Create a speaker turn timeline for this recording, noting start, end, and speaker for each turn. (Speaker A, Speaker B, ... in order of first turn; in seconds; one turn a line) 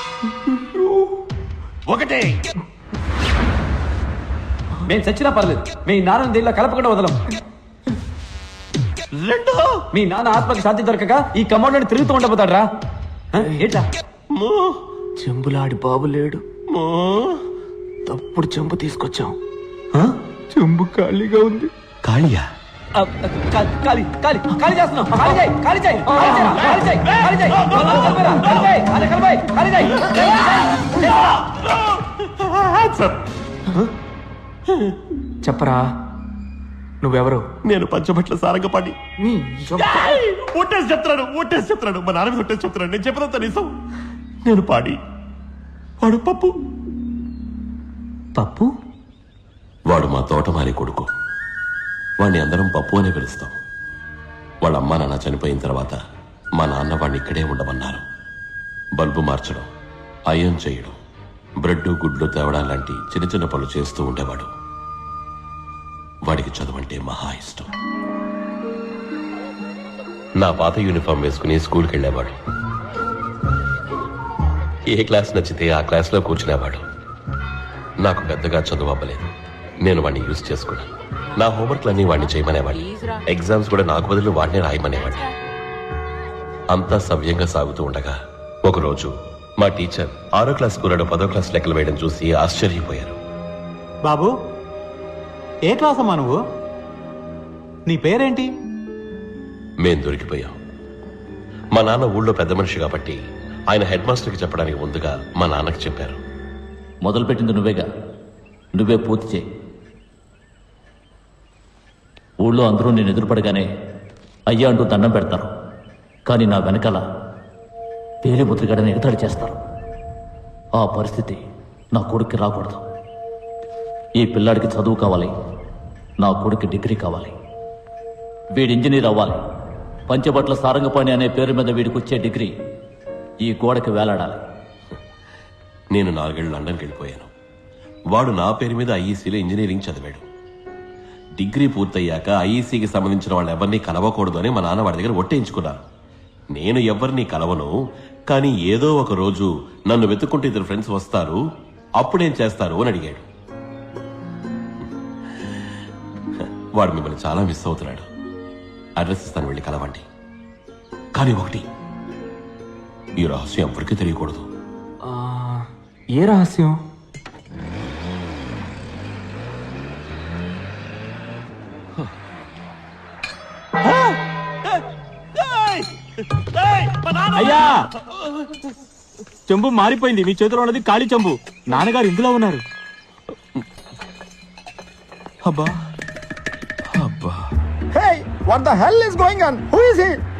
Speaker A: 1.9-2.4
Speaker B: 4.8-7.2
Speaker A: 9.2-9.7
Speaker B: 9.9-12.7
Speaker B: 13.3-13.9
Speaker C: 14.3-14.8
Speaker D: 15.2-16.4
Speaker C: 16.7-17.4
Speaker D: 18.1-19.4
Speaker D: 20.5-21.7
Speaker C: 22.0-22.5
Speaker B: 23.5-30.9
Speaker A: 32.6-33.1
Speaker D: 35.4-35.9
Speaker D: 37.0-37.5
Speaker C: 37.7-38.9
Speaker D: 39.2-40.2
Speaker A: 40.3-43.7
Speaker C: 41.0-42.9
Speaker A: 44.5-45.0
Speaker A: 46.1-46.5
Speaker B: 48.4-48.7
Speaker C: 49.9-51.1
Speaker C: 52.2-53.6
Speaker C: 54.6-56.0
Speaker C: 56.6-58.0
Speaker C: 59.0-59.7
Speaker C: 60.3-61.0
Speaker C: 61.6-64.5
Speaker C: 66.2-67.7
Speaker C: 70.4-72.4
Speaker C: 74.9-76.8
Speaker C: 78.0-85.2
Speaker C: 86.7-93.2
Speaker E: 94.0-94.3
Speaker E: 95.7-96.4
Speaker E: 97.9-98.5
Speaker C: 99.8-100.6
Speaker C: 101.7-106.2
Speaker F: 107.0-107.9
Speaker F: 108.7-109.5
Speaker F: 112.4-113.7
Speaker F: 114.5-115.5
Speaker F: 116.3-117.0
Speaker F: 118.2-119.6
Speaker F: 120.8-122.8
Speaker F: 124.2-125.3
Speaker F: 126.2-127.3
Speaker F: 128.6-129.4
Speaker F: 130.1-132.5
Speaker F: 133.4-134.4
Speaker C: 135.9-137.3
Speaker C: 138.1-140.3
Speaker C: 141.4-145.8
Speaker C: 146.5-147.7
Speaker C: 148.3-151.4
Speaker C: 152.0-153.3
Speaker C: 156.8-158.1
Speaker C: 159.0-160.1
Speaker C: 161.2-161.7
Speaker C: 163.2-164.5
Speaker D: 165.1-165.7
Speaker D: 166.2-166.8
Speaker E: 179.5-182.6
Speaker G: 187.9-190.2